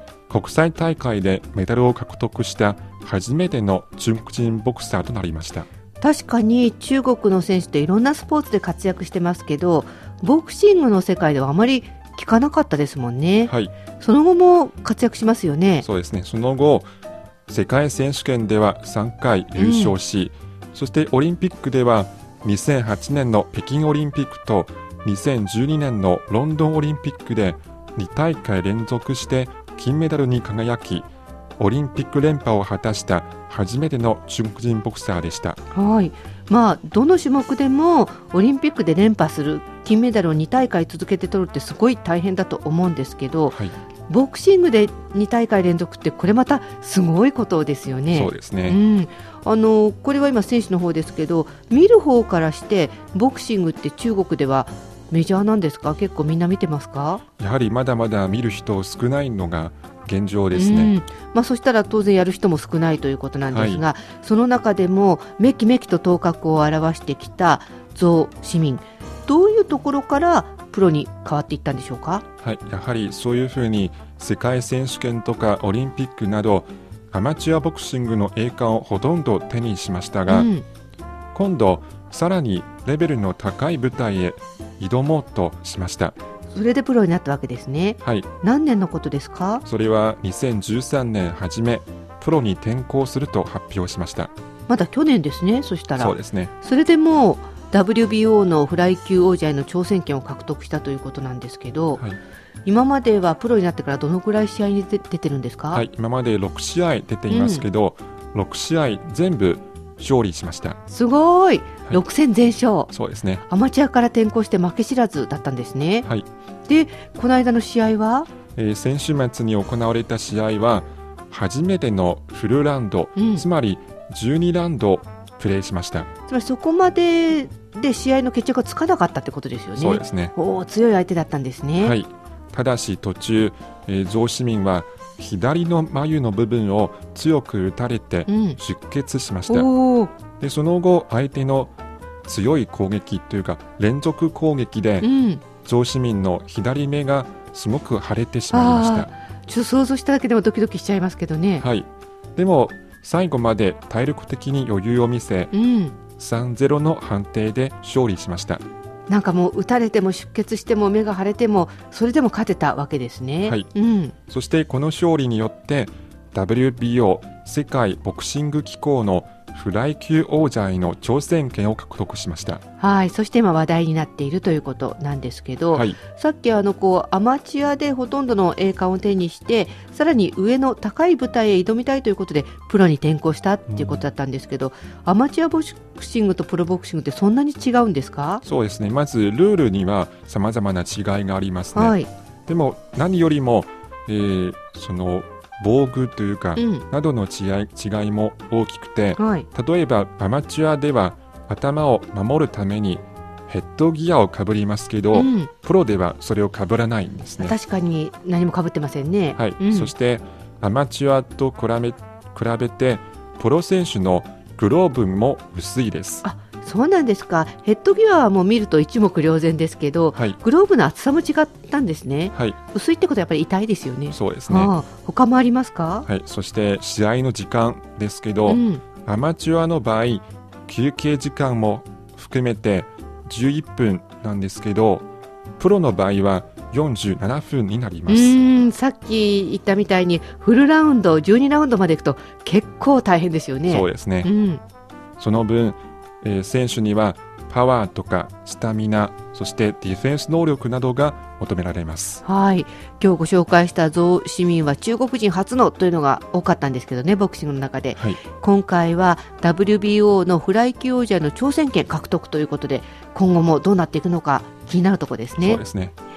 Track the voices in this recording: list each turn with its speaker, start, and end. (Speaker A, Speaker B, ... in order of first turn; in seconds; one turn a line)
Speaker A: 0.3-5.7
Speaker B: 6.0-15.8
Speaker A: 13.4-13.7
Speaker A: 15.8-16.9
Speaker A: 17.5-31.1
Speaker B: 19.6-19.9
Speaker A: 31.6-35.6
Speaker B: 35.7-57.2
Speaker A: 43.5-43.7
Speaker A: 48.1-48.8
Speaker A: 57.4-60.9
Speaker B: 60.5-72.2
Speaker A: 63.5-63.8
Speaker A: 72.4-80.5
Speaker B: 80.3-80.6
Speaker A: 81.3-86.1
Speaker B: 86.5-89.6
Speaker A: 88.0-88.3
Speaker A: 89.6-94.3
Speaker B: 94.7-102.0
Speaker A: 96.0-96.5
Speaker B: 102.6-105.8
Speaker A: 105.7-110.8
Speaker B: 107.3-107.7
Speaker B: 110.9-112.9
Speaker A: 112.9-113.4
Speaker B: 113.5-116.1
Speaker B: 116.7-118.3
Speaker A: 118.5-126.1
Speaker B: 123.2-123.4
Speaker B: 126.3-131.9
Speaker A: 129.8-130.3
Speaker A: 131.8-139.7
Speaker B: 138.3-138.6
Speaker B: 139.5-140.1
Speaker A: 140.4-141.7
Speaker A: 142.2-145.1
Speaker B: 145.0-145.4
Speaker A: 145.6-149.1
Speaker B: 148.5-151.7
Speaker A: 151.6-155.5
Speaker B: 155.5-156.0
Speaker A: 156.2-158.6
Speaker B: 159.1-164.1
Speaker A: 164.3-172.6
Speaker B: 172.8-188.4
Speaker A: 175.7-176.0
Speaker A: 183.7-184.0
Speaker A: 188.4-207.5
Speaker B: 191.7-192.1
Speaker B: 196.6-196.8
Speaker B: 199.2-199.5
Speaker B: 205.1-205.5
Speaker B: 207.4-209.9
Speaker A: 209.4-216.2
Speaker B: 216.2-226.1
Speaker A: 224.1-224.7
Speaker A: 226.1-235.1
Speaker B: 228.4-228.8
Speaker A: 235.6-238.4
Speaker B: 238.1-244.6
Speaker A: 243.7-244.3
Speaker A: 245.2-252.2
Speaker B: 252.2-265.6
Speaker A: 257.9-258.2
Speaker A: 265.4-265.9